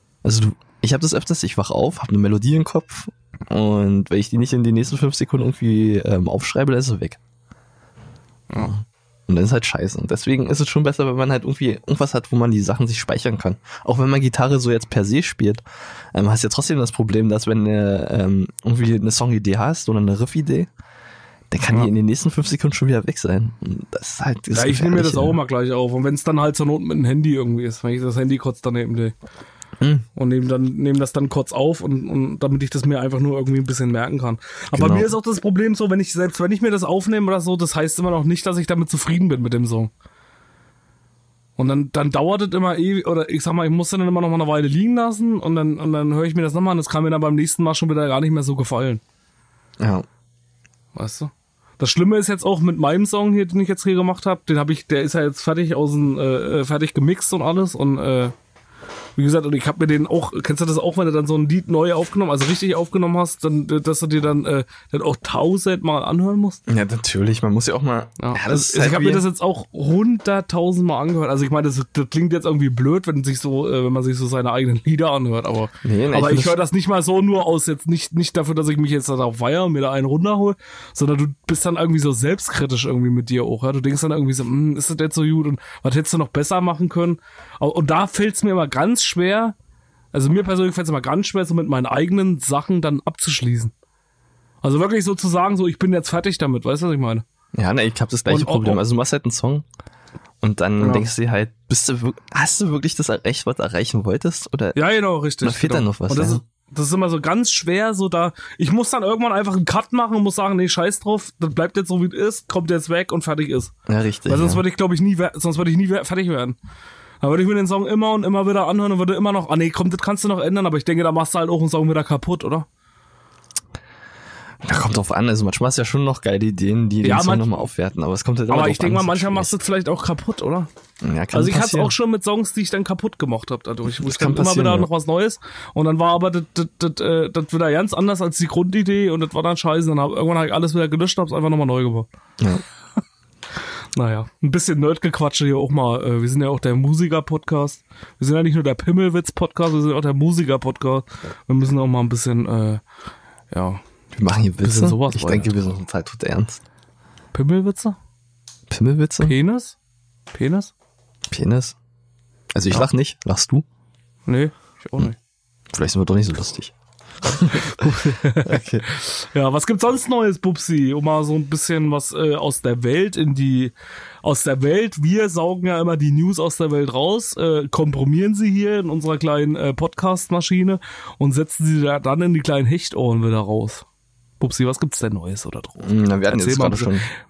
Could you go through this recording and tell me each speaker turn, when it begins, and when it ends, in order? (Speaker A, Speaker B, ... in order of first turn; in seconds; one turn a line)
Speaker A: 0.2-7.2
Speaker B: 8.5-8.8
Speaker A: 8.6-20.7
Speaker A: 21.5-25.4
Speaker B: 24.5-29.1
Speaker A: 29.8-30.1
Speaker B: 30.2-39.9
Speaker A: 34.7-35.1
Speaker B: 41.6-49.0
Speaker A: 49.8-50.1
Speaker B: 51.0-58.3
Speaker B: 59.2-66.6
Speaker A: 66.7-69.2
Speaker B: 68.2-89.6
Speaker A: 75.8-76.6
Speaker B: 90.1-93.7
Speaker B: 94.6-97.2
Speaker A: 97.5-99.7
Speaker B: 98.3-98.8
Speaker A: 100.4-104.8
Speaker B: 100.8-101.1
Speaker B: 104.8-113.7
Speaker A: 105.4-106.4
Speaker A: 113.9-114.6
Speaker B: 114.3-116.6
Speaker B: 117.2-122.7
Speaker A: 124.6-129.5
Speaker B: 127.0-127.7
Speaker B: 128.5-130.7
Speaker A: 131.0-131.9
Speaker B: 131.3-142.1
Speaker A: 133.9-134.9
Speaker B: 143.9-152.8
Speaker B: 153.5-153.8
Speaker A: 154.1-156.6
Speaker B: 154.6-155.6
Speaker B: 157.3-158.0
Speaker A: 158.7-159.4
Speaker B: 159.2-159.8
Speaker B: 160.3-160.7
Speaker A: 161.3-161.8
Speaker A: 162.5-163.7
Speaker B: 164.3-165.2
Speaker A: 165.7-167.8
Speaker B: 167.7-183.8
Speaker A: 168.4-168.8
Speaker B: 184.4-186.9
Speaker A: 185.8-187.1